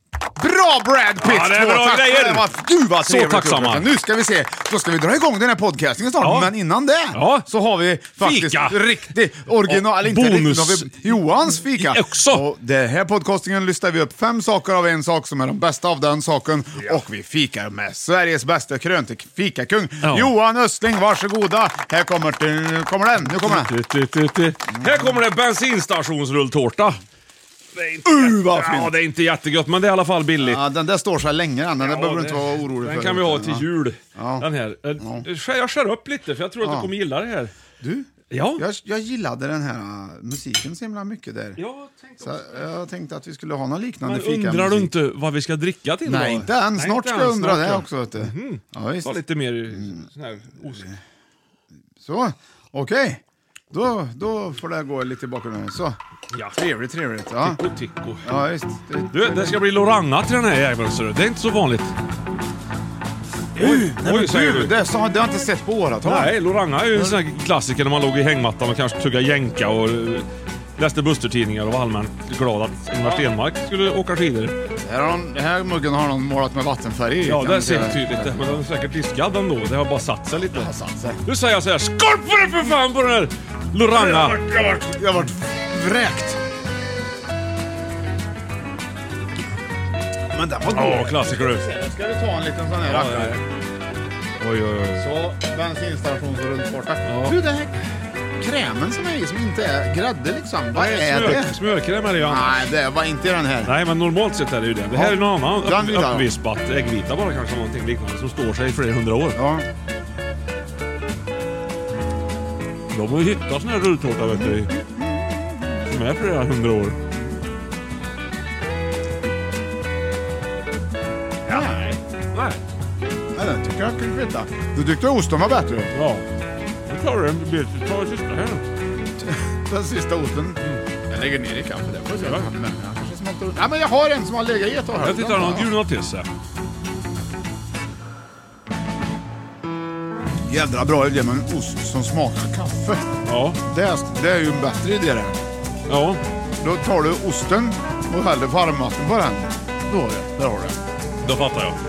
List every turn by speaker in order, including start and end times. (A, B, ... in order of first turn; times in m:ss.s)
0:00.4-0:23.7 A
0:01.2-0:02.5 B
0:03.0-0:03.9 B
0:06.2-0:06.5 B
0:07.1-0:07.4 B
0:08.2-0:09.0 B
0:09.7-0:11.0 B
0:11.8-0:12.5 B
0:20.0-0:20.3 B
0:23.3-0:27.0 B
0:24.8-0:25.1 A
0:27.8-0:30.6 B
0:28.0-0:28.9 A
0:30.4-0:35.3 A
0:31.8-0:37.5 B
0:36.6-0:36.9 A
0:37.8-0:41.6 A
0:38.3-0:38.6 B
0:41.6-0:42.7 B
0:42.2-0:44.9 A
0:44.0-0:50.9 B
0:46.0-0:49.2 A
0:49.7-0:50.0 A
0:52.0-0:56.0 A
0:56.3-0:56.6 B
0:56.5-0:57.6 A
0:57.4-0:58.3 B
0:58.2-0:59.6 A
0:59.1-1:01.9 B
1:03.6-1:04.8 B
1:03.6-1:06.4 A
1:06.0-1:10.3 B
1:10.8-1:14.6 B
1:13.0-1:13.3 A
1:14.8-1:18.5 A
1:17.2-1:20.7 B
1:20.5-1:21.2 A
1:21.2-1:24.5 B
1:23.9-1:26.4 A
1:30.3-1:33.4 A
1:30.7-1:31.7 B
1:32.9-1:33.4 B
1:34.4-1:35.1 B
1:35.0-1:37.8 A
1:37.1-1:37.4 B
1:38.4-1:41.5 A
1:40.7-1:42.7 B
1:42.2-1:43.8 A
1:43.7-1:49.4 B
1:44.9-1:46.3 A
1:49.4-1:49.7 A
1:52.9-1:54.7 B
1:54.3-1:55.8 A
1:55.9-1:57.0 B
2:01.5-2:02.0 A
2:02.3-2:02.6 B
2:03.4-2:05.9 A
2:05.9-2:06.2 B
2:06.9-2:08.6 B
2:09.2-2:15.7 A
2:12.2-2:12.5 B
2:15.0-2:16.3 B
2:20.5-2:23.1 A
2:23.3-2:23.6 B
2:23.6-2:25.4 A
2:25.9-2:26.2 B
2:26.6-2:30.8 A
2:31.2-2:31.8 B